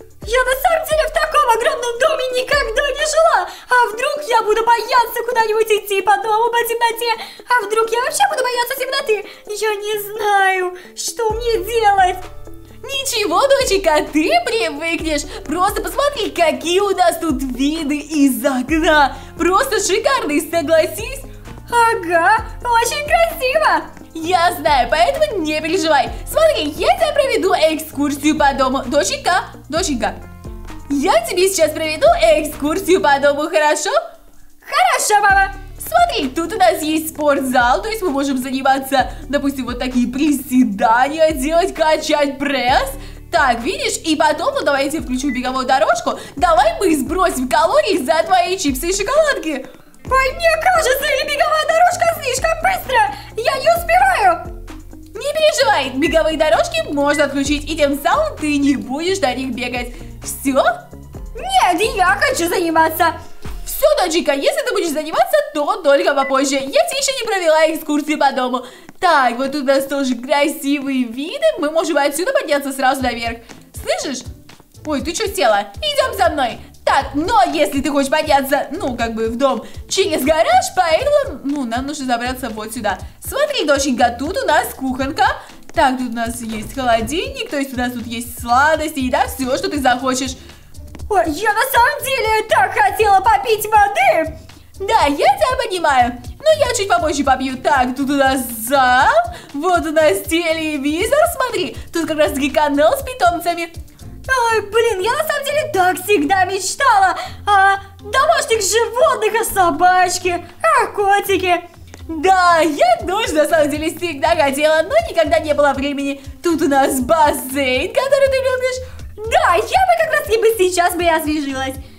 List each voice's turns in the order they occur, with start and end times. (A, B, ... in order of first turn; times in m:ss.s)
0:00.2-0:12.2 A
0:12.8-0:21.2 B
0:21.7-0:23.9 A
0:24.1-0:30.2 B
0:30.9-0:33.9 B
0:34.6-0:35.6 A
0:35.8-0:49.7 B
0:50.1-0:54.4 A
0:55.1-1:00.7 B
1:01.3-1:03.1 A
1:03.6-1:14.3 B
1:14.8-1:30.4 B
1:31.1-1:34.3 A
1:34.8-1:43.7 B
1:44.3-1:51.6 A
1:52.1-1:58.8 B
1:59.2-2:01.8 A